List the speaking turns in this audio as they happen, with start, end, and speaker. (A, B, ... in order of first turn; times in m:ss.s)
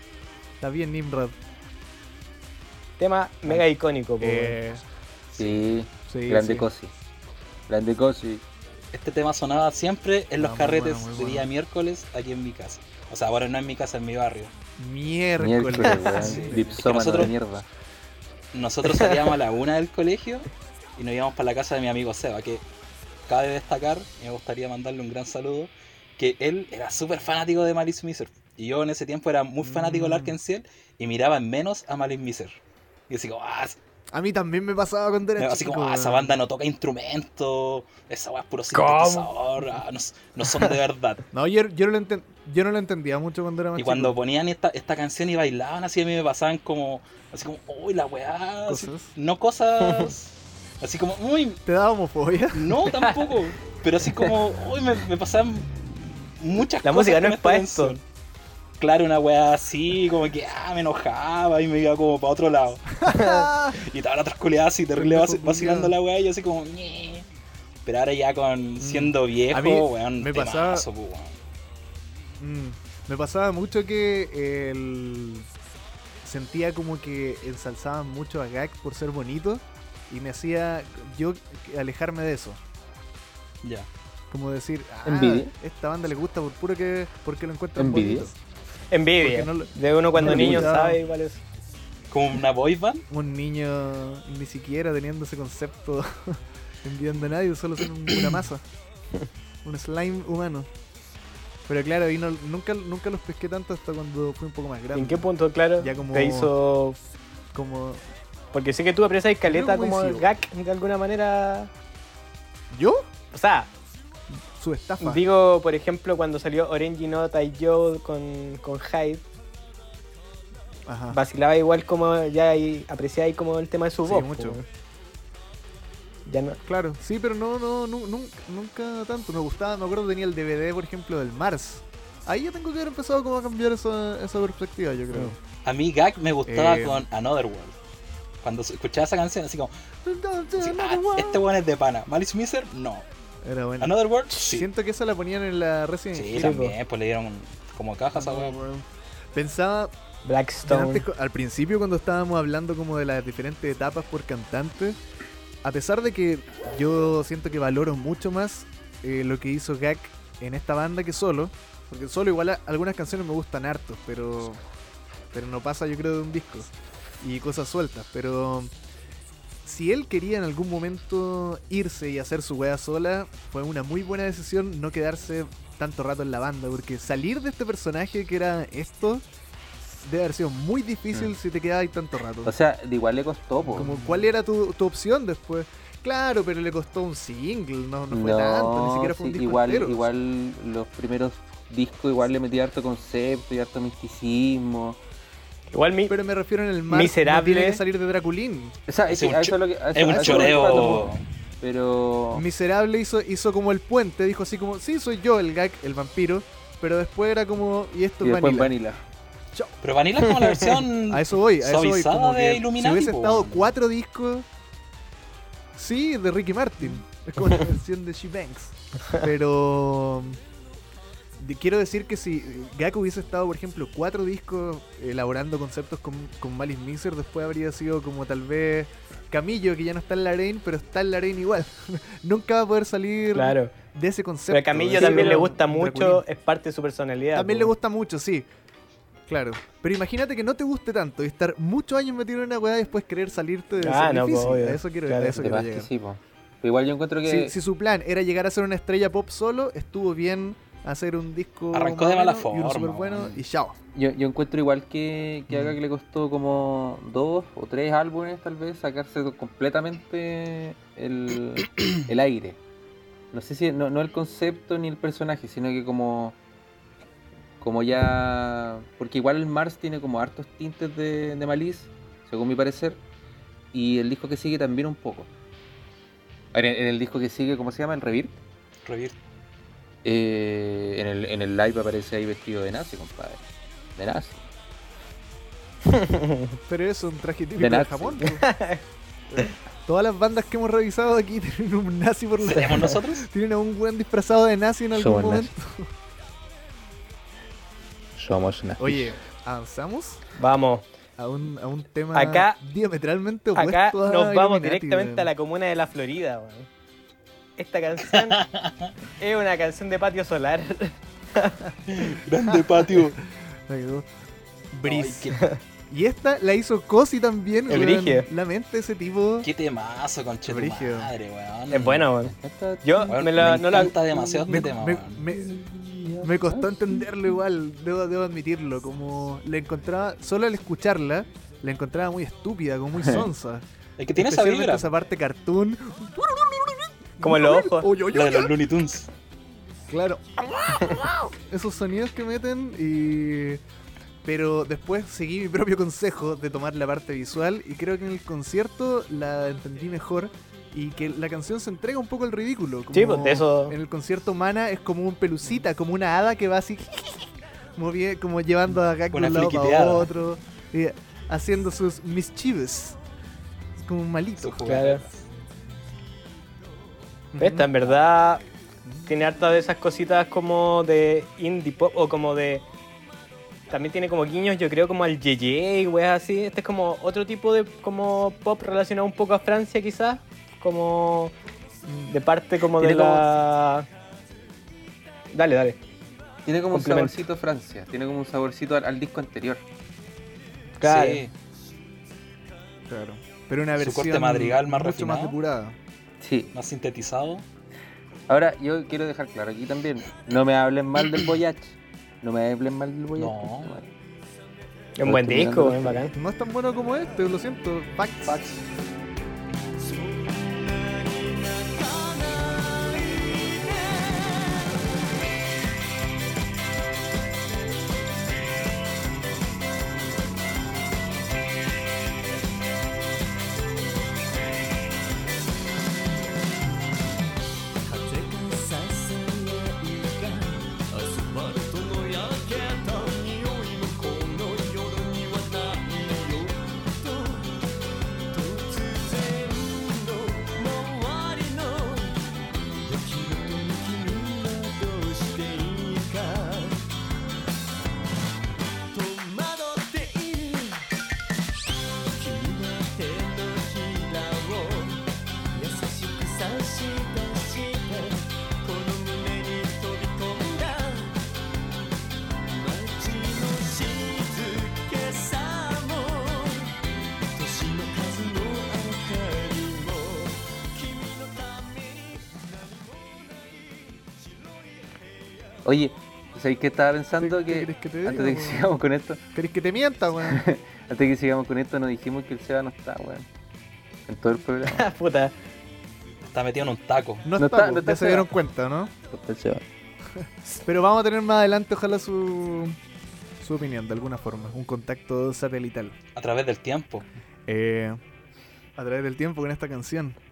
0:00.6-0:01.4 A
0:03.0-0:04.6 B
0:04.2-0:04.8 A
0:05.4-0:05.7 C
0:05.4-0:06.9 D
0:06.1-0:06.7 A
0:07.7-0:08.4 D
0:08.9-0:14.5 C
0:10.4-0:11.5 A
0:14.8-0:16.8 A
0:15.4-0:17.6 D
0:16.1-0:17.3 C
0:18.5-0:22.6 C
0:23.3-0:32.6 C
0:29.6-0:30.4 A
0:33.1-0:33.8 C
0:34.1-0:36.4 A
0:35.4-0:41.2 C
0:38.7-0:39.3 B
0:41.3-0:44.2 A
0:43.8-0:51.6 C
0:48.6-0:49.1 A
0:49.8-0:50.1 B
0:51.6-0:52.8 A
0:52.5-0:58.0 C
0:53.0-0:53.3 B
0:56.8-0:58.0 B
0:58.8-1:03.0 C
1:03.0-1:03.8 A
1:03.0-1:03.4 B
1:03.7-1:07.3 C
1:04.9-1:05.9 A
1:07.8-1:11.4 C
1:08.8-1:10.8 A
1:12.4-1:15.5 A
1:16.2-1:22.6 A
1:23.6-1:23.9 C
1:24.3-1:28.4 A
1:25.0-1:25.5 D
1:27.8-1:28.3 D
1:28.9-1:31.4 B
1:29.2-1:31.0 A
1:30.2-1:30.7 D
1:32.1-1:33.0 C
1:33.1-1:38.6 A
1:39.6-1:40.7 A
1:41.6-1:45.3 A
1:44.9-1:47.0 B
1:45.8-1:46.5 A
1:47.5-1:48.0 A
1:48.5-1:51.7 B
1:49.4-1:50.3 A
1:52.7-1:53.1 A
1:53.3-1:53.7 B
1:54.5-1:55.2 A
1:55.0-1:59.2 B
2:00.8-2:01.2 A
2:01.1-2:04.6 B
2:04.0-2:04.6 A
2:06.2-2:06.6 B
2:06.6-2:15.4 A
2:15.6-2:17.8 C
2:16.4-2:17.0 A
2:18.4-2:19.7 C
2:20.0-2:21.4 A
2:20.6-2:23.1 C
2:23.4-2:26.6 A
2:23.8-2:24.7 C
2:26.1-2:28.6 C
2:26.3-2:26.7 B
2:28.1-2:29.9 A
2:30.2-2:31.0 B
2:30.6-2:35.0 A
2:35.6-2:44.6 A
2:45.3-2:48.7 A
2:49.6-2:59.2 A
2:59.8-3:02.5 A
3:02.4-3:04.2 D
3:03.7-3:10.0 A
3:08.1-3:15.0 D
3:15.7-3:16.2 B
3:16.1-3:18.7 A
3:16.9-3:17.8 B
3:18.9-3:22.4 D
3:19.1-3:21.2 C
3:20.0-3:21.1 A
3:22.3-3:28.7 A
3:28.2-3:29.0 D
3:29.8-3:33.7 C
3:31.1-3:34.4 A
3:35.7-3:40.4 A
3:41.4-3:56.2 A
3:53.3-3:53.7 B
3:54.5-3:57.7 B
3:57.3-3:58.5 A
3:59.3-4:05.9 A
4:03.8-4:05.4 B
4:05.4-4:07.6 D
4:07.2-4:13.8 A
4:11.7-4:13.4 C
4:13.9-4:22.6 D
4:15.5-4:15.8 A
4:23.3-4:26.4 D
4:27.6-4:33.0 D
4:33.7-4:35.3 D
4:36.5-4:38.4 D
4:38.8-4:39.1 C
4:40.0-4:43.4 D
4:44.0-4:44.4 D
4:45.9-4:46.6 B
4:46.7-4:48.4 A
4:47.6-4:48.2 D
4:48.2-4:48.8 B
4:49.3-4:55.9 A
4:52.4-4:53.3 C
4:54.9-4:55.5 D
4:58.2-4:59.1 D
4:58.8-5:00.2 A
5:00.4-5:00.8 B
5:01.2-5:05.3 A
5:02.1-5:02.6 B
5:03.6-5:06.7 B
5:07.6-5:08.4 B
5:08.2-5:08.9 C
5:09.2-5:11.6 B
5:11.9-5:13.2 C
5:13.7-5:14.1 A
5:14.7-5:15.3 A
5:14.8-5:15.4 C
5:15.9-5:19.5 A
5:17.7-5:18.3 B
5:19.4-5:22.1 C
5:20.4-5:21.1 A
5:21.7-5:22.3 B
5:22.2-5:23.2 D
5:22.8-5:24.0 B
5:23.1-5:25.2 C
5:24.1-5:24.7 D
5:24.5-5:25.6 A
5:25.3-5:27.1 D
5:26.2-5:38.5 A
5:33.0-5:33.3 D
5:34.0-5:34.9 C
5:37.2-5:37.9 B
5:38.1-5:39.1 C
5:39.9-5:43.6 A
5:44.2-6:03.0 A
5:52.9-5:53.8 B
5:59.1-6:00.1 C
6:03.8-6:04.7 A
6:04.4-6:05.3 C
6:04.7-6:05.0 B
6:07.3-6:07.7 A
6:07.4-6:08.4 B
6:09.0-6:12.6 B
6:13.7-6:21.3 B
6:21.8-6:22.1 A
6:22.1-6:23.9 B
6:22.8-6:23.3 D
6:25.3-6:25.8 B
6:26.4-6:29.6 D
6:26.7-6:27.2 B
6:30.8-6:31.2 B
6:30.8-6:31.3 C
6:32.9-6:35.8 A
6:33.8-6:35.4 C
6:36.2-6:36.5 D
6:36.5-6:37.4 C
6:38.3-6:43.9 D
6:43.2-6:43.8 C
6:45.0-6:46.1 B
6:45.0-6:46.0 D
6:46.1-6:48.4 A
6:48.2-6:48.6 C
6:49.8-6:54.9 E
7:07.8-7:17.6 E
7:18.3-7:22.2 E
7:22.8-7:26.8 E
7:28.9-7:30.8 E
7:32.1-7:41.2 E
7:42.5-7:53.5 E
7:55.6-7:59.2 D
7:57.2-7:58.7 A
7:59.3-8:00.4 A
8:00.2-8:03.2 D
8:04.1-8:04.8 D
8:04.6-8:05.3 B
8:06.3-8:07.3 C
8:07.2-8:08.9 A
8:07.4-8:08.3 D
8:09.1-8:09.6 D
8:10.2-8:12.8 A
8:13.4-8:16.0 A
8:16.2-8:17.1 C
8:17.5-8:18.0 A
8:18.8-8:20.2 A